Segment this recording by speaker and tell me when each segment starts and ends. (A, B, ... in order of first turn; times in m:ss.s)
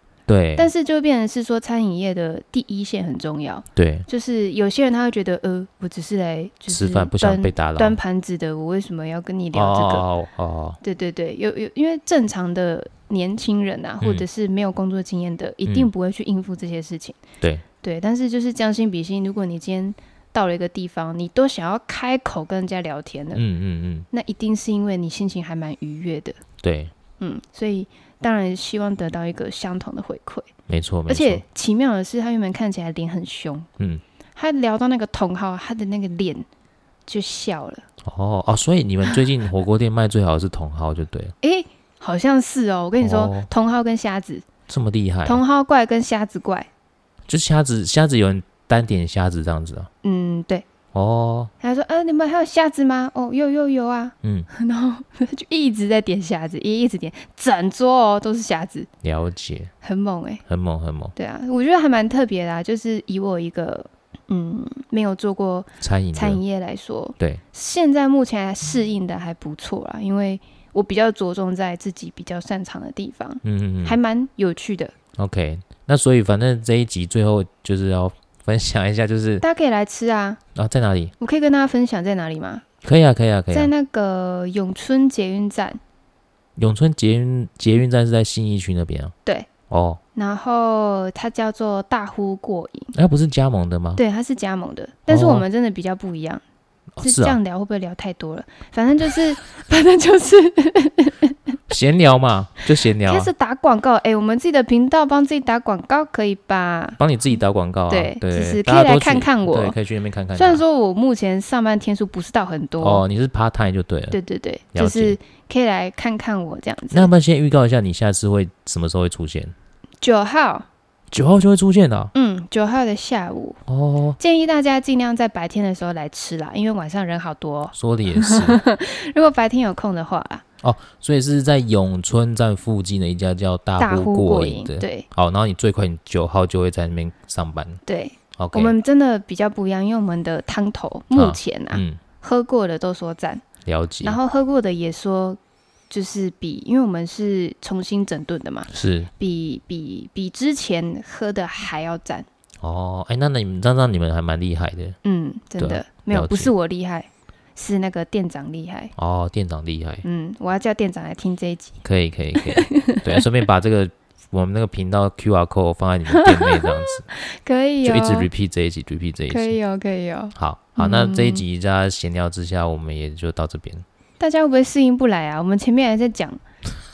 0:00.3-0:00.7 A
0:00.6-0:10.0 B
0:03.8-0:04.1 A
0:06.7-0:08.0 A
0:09.5-0:10.8 A
0:10.8-0:17.2 B
0:17.8-0:23.4 B
0:23.3-0:24.1 A
0:24.1-0:26.4 B
0:26.6-0:26.9 A
0:27.2-0:30.5 B
0:30.7-0:31.4 A
0:31.1-0:33.7 B
0:34.4-0:36.4 B
0:37.1-0:37.8 B
0:38.0-0:41.3 A
0:41.4-0:44.4 B
0:43.0-0:43.5 A
0:44.7-0:45.4 A
0:45.2-0:46.7 B
0:47.3-0:49.9 A
0:50.0-0:50.6 B
0:50.9-0:51.5 A
0:51.6-0:58.9 B
0:54.2-0:54.5 A
0:59.0-0:59.7 A
0:59.8-1:00.4 B
1:00.5-1:01.1 A
1:01.2-1:14.9 B
1:05.8-1:06.4 A
1:13.4-1:14.0 A
1:15.2-1:19.4 A
1:19.4-1:20.4 B
1:20.5-1:21.1 A
1:21.2-1:22.6 B
1:22.8-1:23.7 A
1:23.5-1:25.8 B
1:26.6-1:29.1 A
1:29.7-1:30.0 A
1:30.1-1:32.9 B
1:32.9-1:34.0 A
1:34.0-1:36.4 B
1:35.1-1:35.4 A
1:36.9-1:37.4 A
1:37.0-1:41.4 B
1:41.7-1:43.3 A
1:43.0-1:47.0 B
1:47.0-1:50.6 A
1:47.9-1:49.8 B
1:50.3-1:53.0 B
1:52.8-1:54.2 A
1:54.1-1:57.1 B
1:54.7-1:55.2 A
1:56.9-1:59.5 A
2:00.0-2:00.7 B
2:01.1-2:02.1 A
2:02.1-2:03.6 B
2:03.7-2:04.2 A
2:04.2-2:10.4 B
2:07.7-2:08.6 A
2:10.6-2:17.8 A
2:13.8-2:15.0 B
2:17.8-2:23.4 B
2:18.4-2:18.7 A
2:21.1-2:22.0 A
2:23.6-2:24.2 A
2:24.0-2:25.4 B
2:25.9-2:32.3 B
2:28.7-2:29.1 A
2:32.6-2:35.0 A
2:35.0-2:38.9 B
2:35.6-2:36.5 A
2:39.0-2:40.0 A
2:40.0-2:41.8 B
2:41.8-2:47.0 A
2:42.4-2:43.2 B
2:46.1-2:48.3 B
2:47.8-2:49.6 A
2:49.3-2:51.4 B
2:50.3-2:53.8 A
2:54.2-2:56.4 B